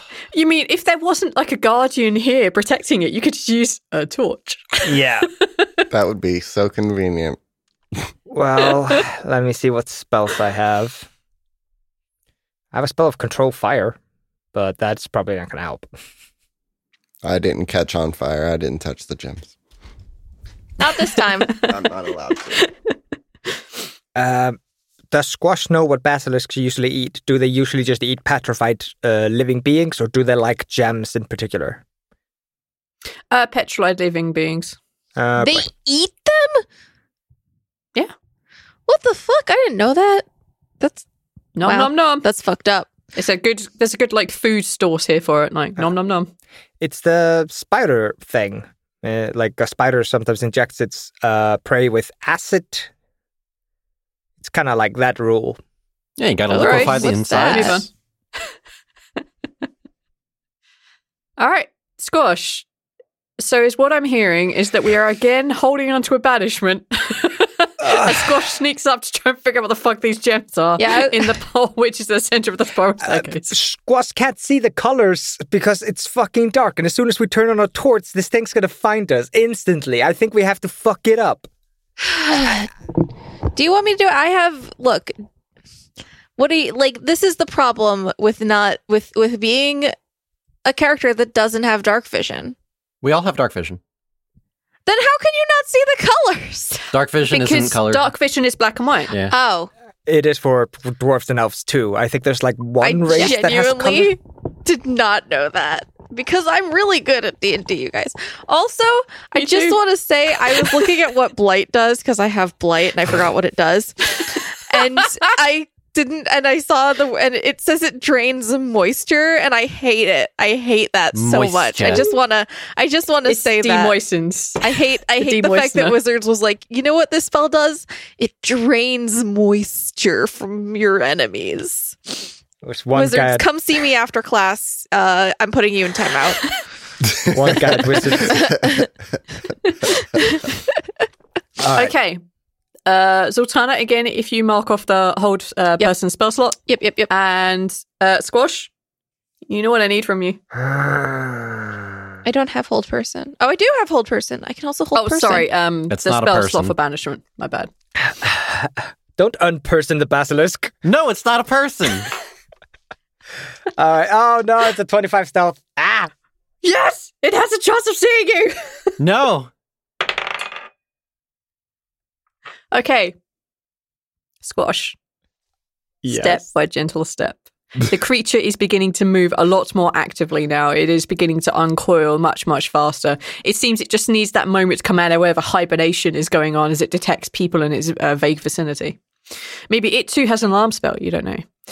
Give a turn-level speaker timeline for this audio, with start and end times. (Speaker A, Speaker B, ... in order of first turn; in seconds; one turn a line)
Speaker A: 0.3-4.9
Speaker B: 4.8-5.3
Speaker C: 5.9-7.4
Speaker B: 8.3-11.1
Speaker B: 12.7-14.0
Speaker B: 14.5-15.9
Speaker C: 17.2-19.5
Speaker D: 20.8-21.6
Speaker C: 21.6-22.5
Speaker B: 24.1-24.6
Speaker B: 25.1-31.8
Speaker A: 33.3-34.8
Speaker B: 35.2-35.7
Speaker D: 35.4-36.6
Speaker D: 38.9-40.3
Speaker D: 40.8-41.0
Speaker A: 41.6-42.3
Speaker D: 41.6-42.9
Speaker A: 43.1-46.3
Speaker B: 46.8-52.9
Speaker B: 54.4-55.6
Speaker E: 56.2-57.9
Speaker D: 56.5-57.8
Speaker A: 56.5-57.9
Speaker A: 61.4-62.7
Speaker A: 63.4-73.5
Speaker D: 70.8-71.3
Speaker B: 73.0-81.5
Speaker D: 82.0-82.7
Speaker D: 83.5-85.2
Speaker D: 86.4-89.9
Speaker D: 90.7-92.6
Speaker E: 93.0-93.8
Speaker D: 94.9-96.9
Speaker E: 96.9-98.1
Speaker A: 97.3-99.2
Speaker D: 99.3-99.7
Speaker B: 100.1-104.1
Speaker D: 102.8-124.0
Speaker A: 109.3-109.8
Speaker A: 110.4-110.9
Speaker A: 114.8-115.3
Speaker E: 121.1-122.1
Speaker A: 123.3-126.0
Speaker D: 124.6-132.3
Speaker B: 132.6-133.5
Speaker D: 132.9-136.4
Speaker B: 137.3-138.5
Speaker B: 141.6-141.9
Speaker A: 141.7-142.2
Speaker A: 142.9-148.7
Speaker D: 146.7-147.1
Speaker A: 149.5-150.4
Speaker B: 150.5-151.8
Speaker D: 152.2-155.5
Speaker A: 154.9-157.7
Speaker E: 155.9-156.7
Speaker B: 158.0-160.7
Speaker E: 160.8-162.1
Speaker B: 163.8-166.1
Speaker A: 166.6-168.9
Speaker E: 169.0-169.5
Speaker A: 172.7-173.2
Speaker A: 174.4-175.0
Speaker B: 176.0-176.4
Speaker A: 176.1-189.0
Speaker A: 189.7-191.5